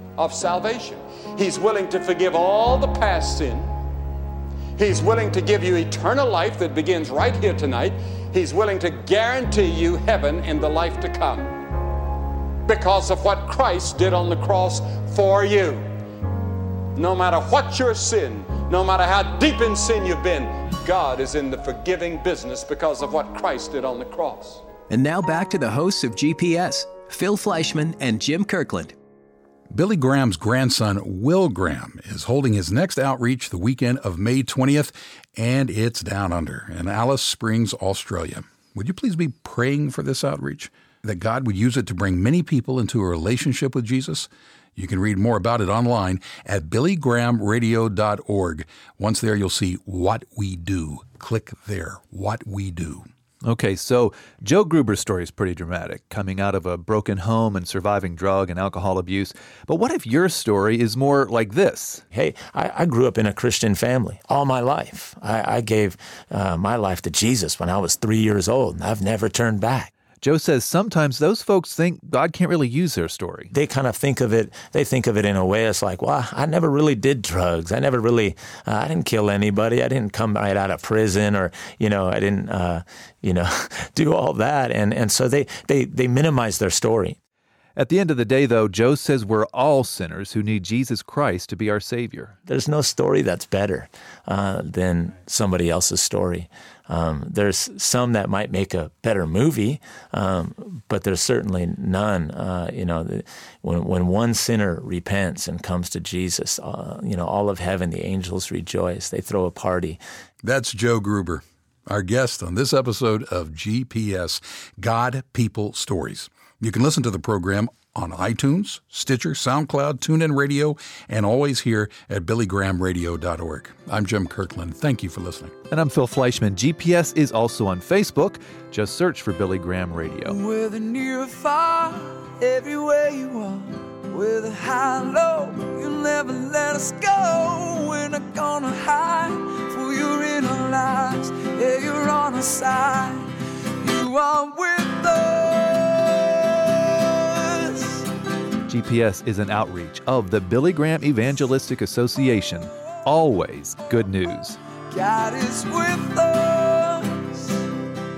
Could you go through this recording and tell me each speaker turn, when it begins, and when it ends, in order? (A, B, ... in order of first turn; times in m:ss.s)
0:00.2-0:03.7 A
0:04.8-0:11.5 A
0:12.6-0:15.9 A
0:16.9-0:24.6 A
0:24.9-0:28.9 B
0:29.7-0:53.0 C
0:53.4-1:02.0 D
1:02.1-1:09.9 E
1:10.2-1:13.5 D
1:13.5-1:27.2 E
1:27.8-1:32.3 D
1:32.5-1:50.0 E
1:50.4-2:05.5 C
2:05.7-2:10.4 D
2:10.2-2:28.1 F
2:28.6-2:34.6 D
2:34.9-2:37.8 F